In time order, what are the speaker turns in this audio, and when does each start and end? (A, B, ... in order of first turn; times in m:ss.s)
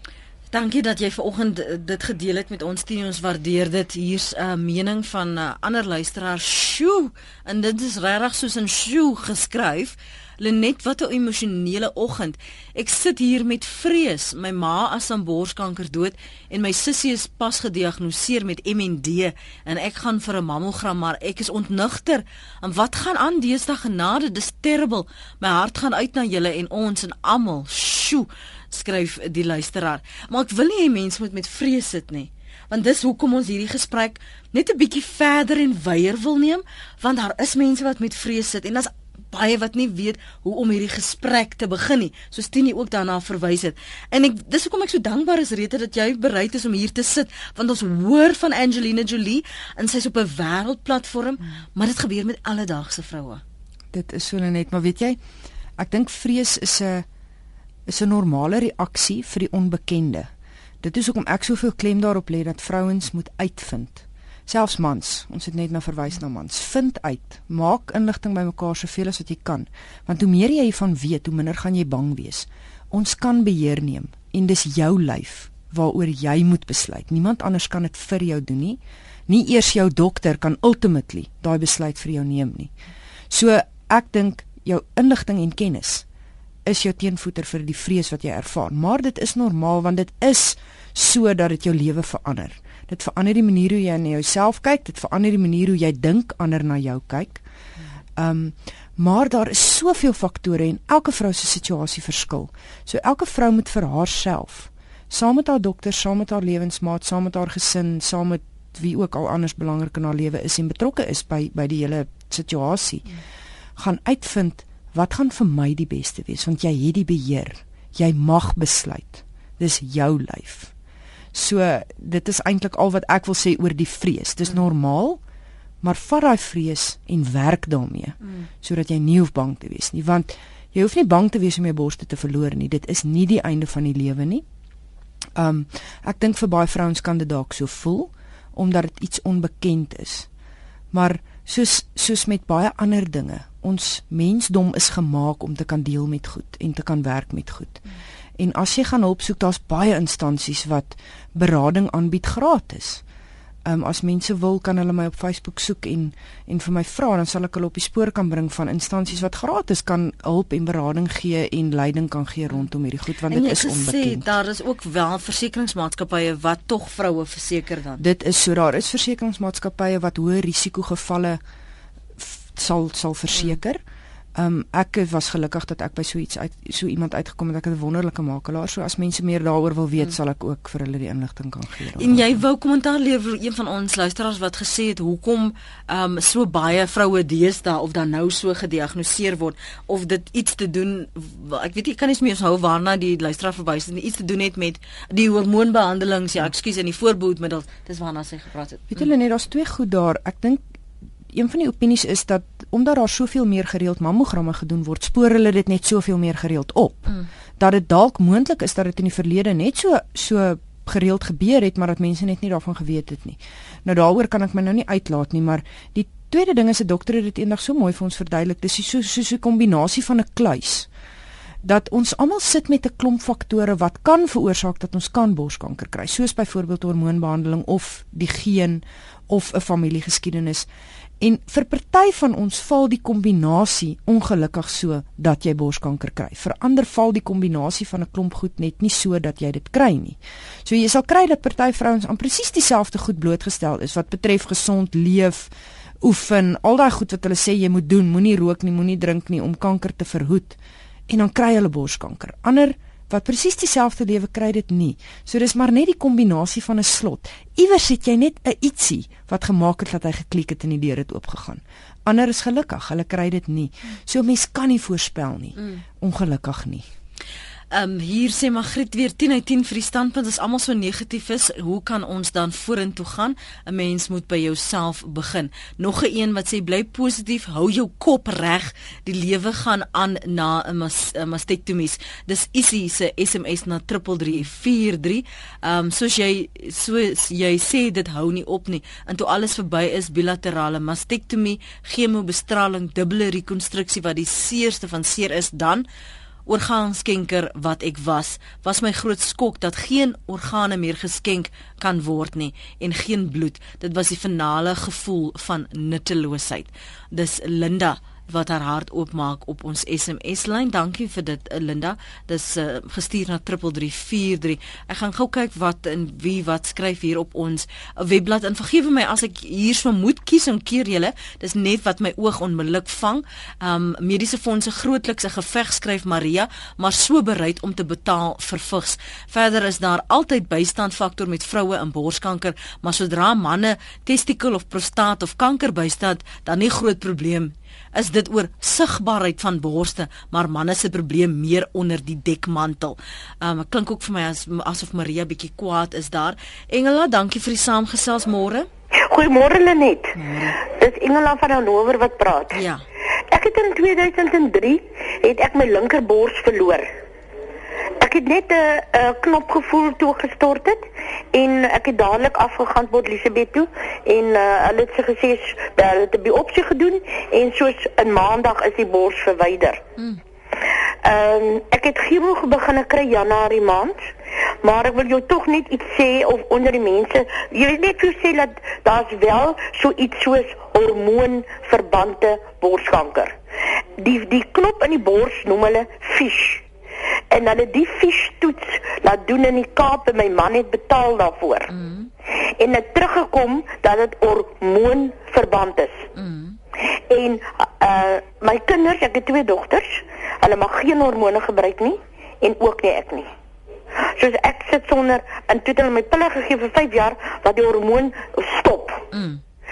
0:00.5-0:53.4 A
0:53.9-0:55.2 B
0:55.8-0:57.1 B
0:57.9-1:00.3 B
1:00.8-1:22.7 B
1:23.3-1:26.0 B
1:26.6-1:37.4 B
1:38.2-1:53.2 B
1:53.8-2:00.7 B
2:01.3-2:05.2 B
2:05.8-2:14.4 B
2:15.4-2:20.3 B
2:20.9-2:27.8 B
2:28.4-2:33.0 B
2:33.6-2:44.3 B
2:43.3-2:48.0 A
2:48.0-2:51.4 B
2:52.2-2:53.8 B
2:54.4-3:02.4 B
3:02.0-3:19.1 A
3:18.9-3:20.6 B
3:21.3-3:40.9 B
3:41.6-3:50.7 B
3:51.2-4:05.5 B
4:06.0-4:10.6 B
4:11.1-4:26.8 B
4:25.6-4:25.8 A
4:27.7-4:55.9 A
4:56.5-5:48.7 A
5:49.1-5:52.6 C
5:50.2-5:50.6 A
5:52.5-5:52.8 A
5:53.3-5:56.9 C
5:58.0-6:09.8 C
6:11.0-6:14.0 C
6:14.6-6:23.4 C
6:24.0-6:26.6 C
6:27.3-6:31.7 C
6:31.7-6:32.1 A
6:32.6-6:36.1 C
6:36.2-6:36.6 A
6:37.1-6:43.3 C
6:44.1-6:49.0 C
6:49.1-6:49.4 A